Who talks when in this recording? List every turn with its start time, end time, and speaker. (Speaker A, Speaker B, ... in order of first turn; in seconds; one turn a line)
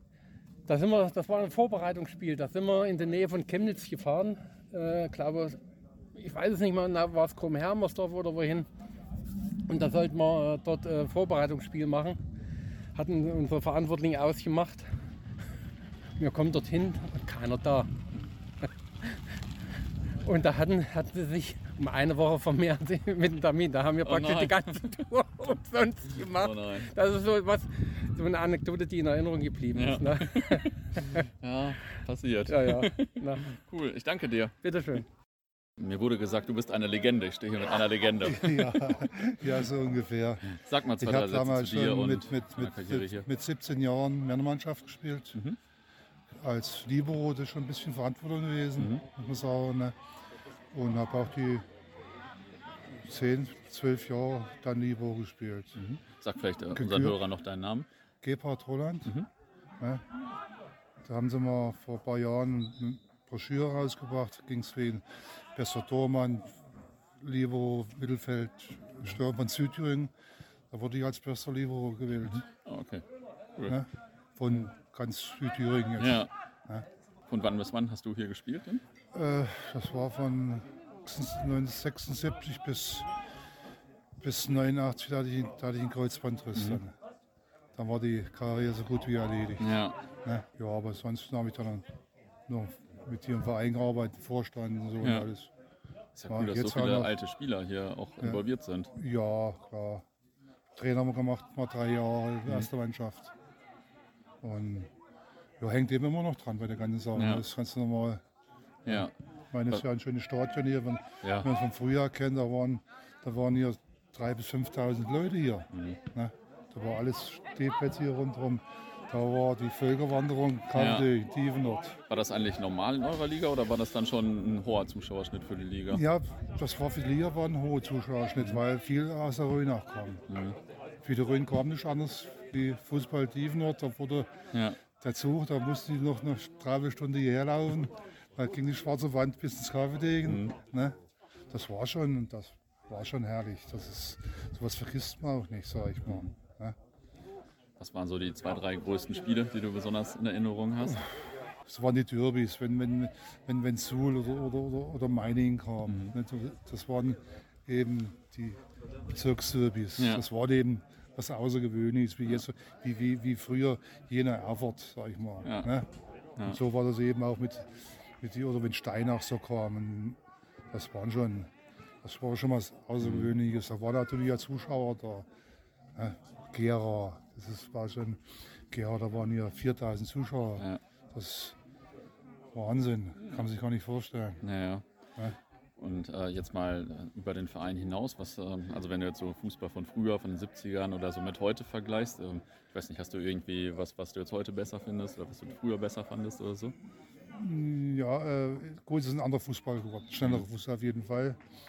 Speaker A: 0.7-5.6
Speaker A: 6.1-8.7
Speaker A: 9.7-12.2
Speaker A: 12.9-14.9
Speaker A: 16.2-17.9
Speaker A: 20.2-31.3
Speaker B: 24.1-25.0
Speaker B: 26.2-26.9
Speaker B: 29.7-34.6
Speaker A: 32.5-33.5
Speaker A: 34.6-35.0
Speaker B: 35.8-39.0
Speaker C: 38.2-45.4
Speaker B: 40.5-43.3
Speaker C: 46.4-50.0
Speaker B: 48.8-49.0
Speaker C: 50.7-51.6
Speaker C: 53.0-55.8
Speaker B: 55.8-57.9
Speaker C: 56.7-57.2
Speaker C: 58.2-59.1
Speaker C: 59.8-60.0
Speaker C: 61.0-66.6
Speaker C: 67.2-70.1
Speaker C: 70.7-72.4
Speaker B: 72.6-73.0
Speaker C: 73.7-76.9
Speaker B: 76.0-76.3
Speaker B: 77.3-78.8
Speaker C: 79.1-83.1
Speaker C: 84.2-87.0
Speaker B: 86.5-86.8
Speaker C: 87.7-91.9
Speaker B: 89.6-90.0
Speaker C: 92.5-95.5
Speaker B: 95.0-95.3
Speaker B: 96.1-98.9
Speaker C: 96.3-97.2
Speaker C: 98.2-100.0
Speaker C: 100.7-103.3
Speaker C: 104.4-104.9
Speaker C: 105.6-108.2
Speaker B: 107.1-107.4
Speaker B: 108.8-109.1
Speaker C: 108.8-122.0
Speaker B: 111.2-111.5
Speaker B: 115.7-116.0
Speaker B: 120.7-121.1
Speaker B: 122.1-126.0
Speaker C: 125.9-130.2
Speaker B: 130.3-130.6
Speaker C: 131.0-134.3
Speaker B: 134.5-134.8
Speaker C: 134.9-141.0
Speaker B: 140.2-140.6
Speaker C: 141.5-146.8
Speaker B: 147.8-151.0
Speaker C: 151.7-165.9
Speaker B: 155.9-156.1
Speaker B: 160.0-160.2
Speaker B: 165.4-165.7
Speaker C: 166.4-170.2
Speaker C: 170.7-171.5
Speaker C: 172.0-175.3
Speaker B: 173.0-173.3
Speaker C: 175.9-181.6
Speaker B: 180.6-180.8
Speaker C: 182.5-184.4
Speaker B: 184.4-184.8
Speaker B: 185.8-196.7
Speaker C: 197.3-201.4